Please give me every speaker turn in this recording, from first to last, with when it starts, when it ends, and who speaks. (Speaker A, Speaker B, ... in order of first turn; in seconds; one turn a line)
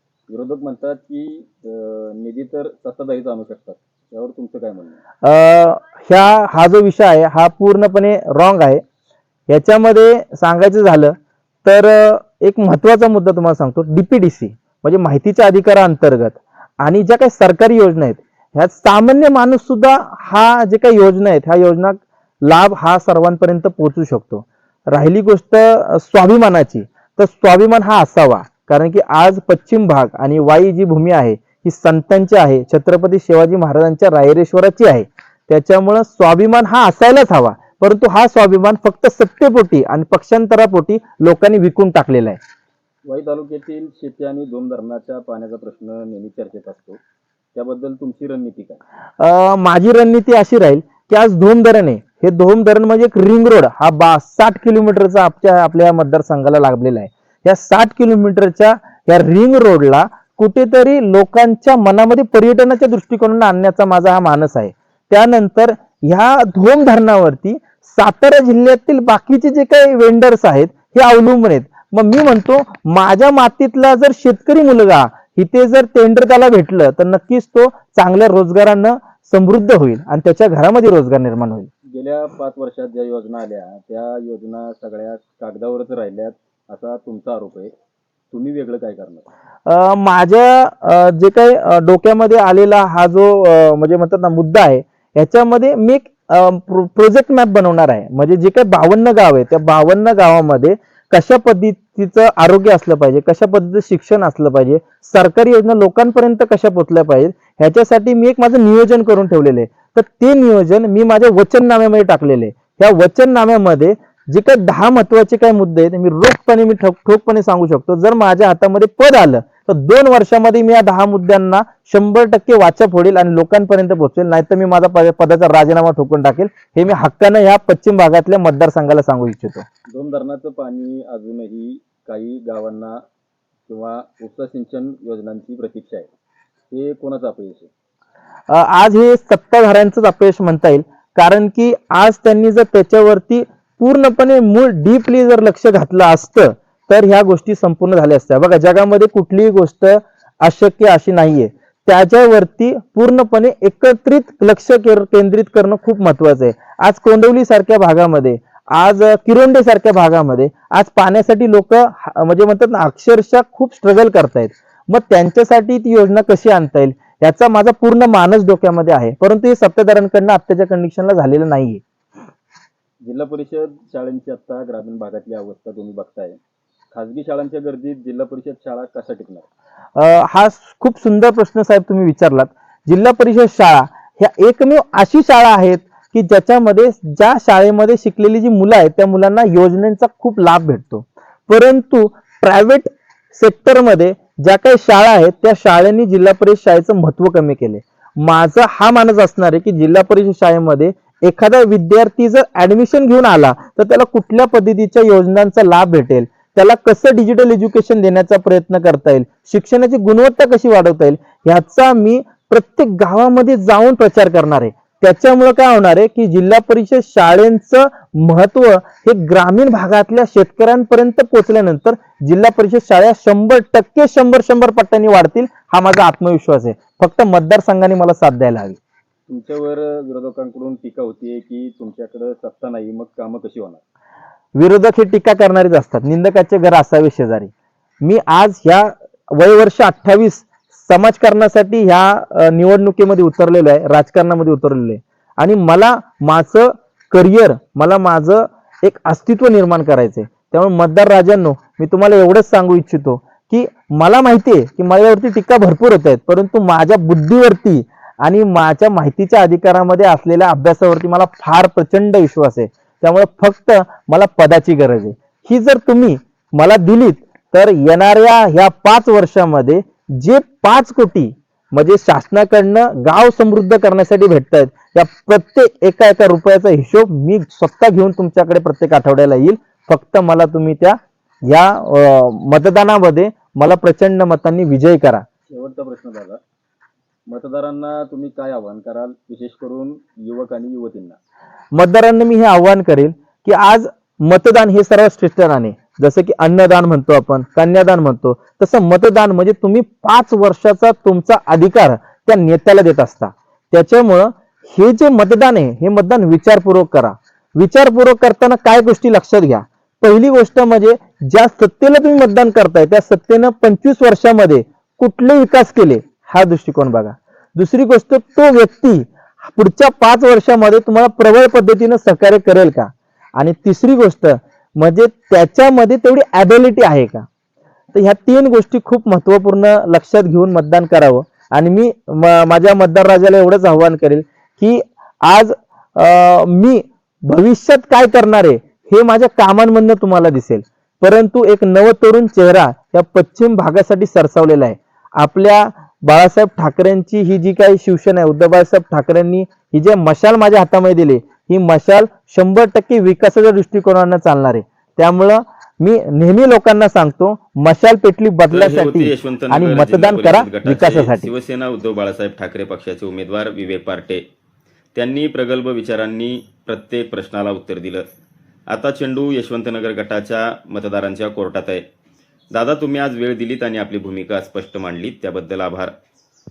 Speaker A: 0.3-5.0
Speaker B: 5.2-8.8
Speaker B: 9.5-42.4
Speaker A: 43.1-47.0
Speaker A: 47.5-48.8
Speaker B: 49.2-81.7
Speaker A: 81.9-87.7
Speaker A: 88.3-89.3
Speaker B: 89.7-129.7
Speaker A: 129.9-133.0
Speaker A: 133.7-136.1
Speaker A: 136.7-137.7
Speaker B: 138.5-171.8
Speaker A: 173.0-176.4
Speaker A: 176.9-179.5
Speaker B: 180.0-228.8
Speaker A: 229.3-233.8
Speaker B: 234.6-237.5
Speaker B: 238.0-285.2
Speaker A: 285.5-286.4
Speaker A: 287.3-291.2
Speaker B: 291.7-327.3
Speaker B: 327.9-361.3
Speaker C: 358.5-364.2
Speaker C: 364.9-368.1
Speaker C: 368.7-371.9
Speaker C: 372.5-375.9